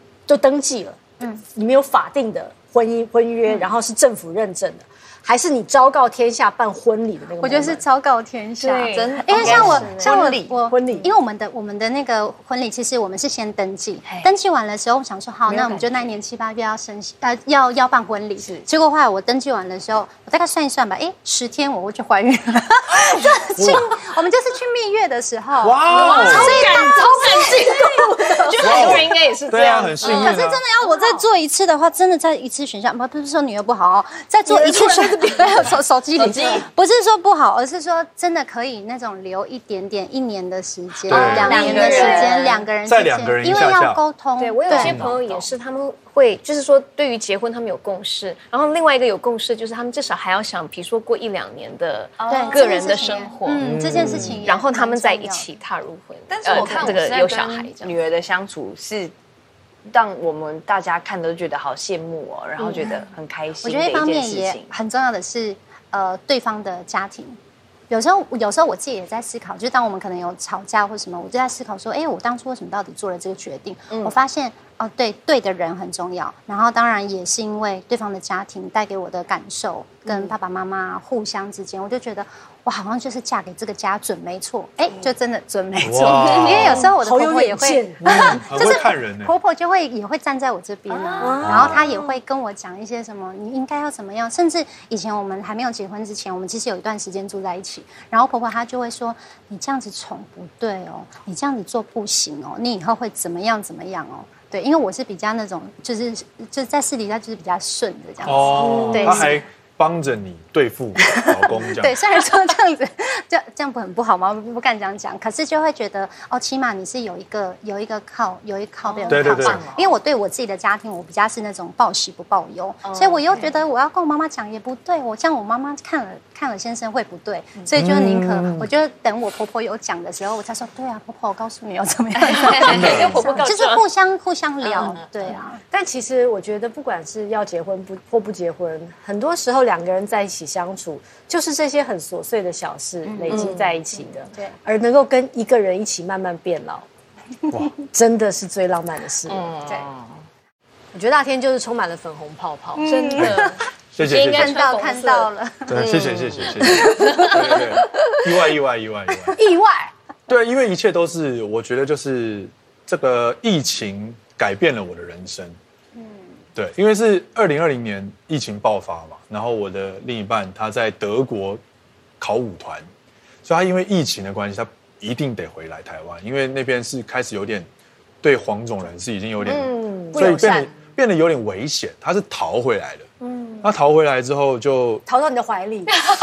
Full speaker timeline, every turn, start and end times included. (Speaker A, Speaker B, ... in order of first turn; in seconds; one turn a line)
Speaker A: 0.3-1.0
Speaker A: 1.5-7.8
Speaker B: 7.4-29.0
Speaker C: 8.6-10.2
Speaker D: 8.7-11.1
Speaker A: 9.5-11.1
Speaker D: 14.1-14.3
Speaker D: 15.5-16.2
Speaker D: 18.4-18.7
Speaker D: 22.9-23.4
Speaker E: 23.5-23.9
Speaker E: 25.6-26.6
Speaker C: 25.9-30.4
Speaker A: 26.1-28.5
Speaker D: 28.5-29.1
Speaker E: 28.6-30.6
Speaker B: 30.0-45.0
Speaker D: 30.1-30.3
Speaker A: 34.5-35.6
Speaker D: 36.1-36.7
Speaker E: 41.1-41.7
Speaker D: 41.1-42.7
Speaker C: 41.4-42.5
Speaker A: 41.5-42.3
Speaker E: 42.8-44.0
Speaker C: 44.4-53.7
Speaker E: 44.7-45.1
Speaker D: 44.7-45.5
Speaker D: 52.2-53.2
Speaker B: 52.3-55.5
Speaker E: 53.6-54.5
Speaker C: 54.4-58.0
Speaker D: 56.3-59.1
Speaker B: 56.5-57.0
Speaker D: 59.9-64.7
Speaker B: 62.8-63.0
Speaker B: 63.6-67.4
Speaker B: 67.9-109.4
Speaker D: 73.9-74.2
Speaker D: 80.1-80.3
Speaker E: 85.8-86.9
Speaker A: 86.2-88.4
Speaker E: 88.0-89.3
Speaker D: 90.9-91.6
Speaker A: 91.2-91.8
Speaker E: 91.4-91.8
Speaker E: 108.2-112.0
Speaker A: 108.5-109.3
Speaker B: 111.0-135.6
Speaker D: 118.8-120.0
Speaker E: 119.1-119.7
Speaker D: 122.8-123.6
Speaker E: 127.7-128.7
Speaker C: 132.2-133.8
Speaker E: 132.6-133.2
Speaker D: 134.6-135.3
Speaker A: 135.7-146.8
Speaker B: 143.0-143.5
Speaker D: 143.3-143.8
Speaker A: 147.9-149.5
Speaker D: 149.3-150.2
Speaker A: 150.9-152.9
Speaker B: 152.8-156.1
Speaker C: 152.8-155.3
Speaker E: 153.2-154.6
Speaker E: 155.7-159.4
Speaker D: 155.7-156.7
Speaker C: 156.8-157.3
Speaker A: 157.0-157.3
Speaker A: 159.3-159.9
Speaker E: 160.3-165.6
Speaker B: 165.9-166.4
Speaker E: 166.6-171.6
Speaker E: 172.2-172.9
Speaker E: 173.4-177.7
Speaker E: 178.2-183.1
Speaker D: 179.4-180.8
Speaker A: 179.8-180.7
Speaker E: 183.6-185.0
Speaker A: 185.1-186.1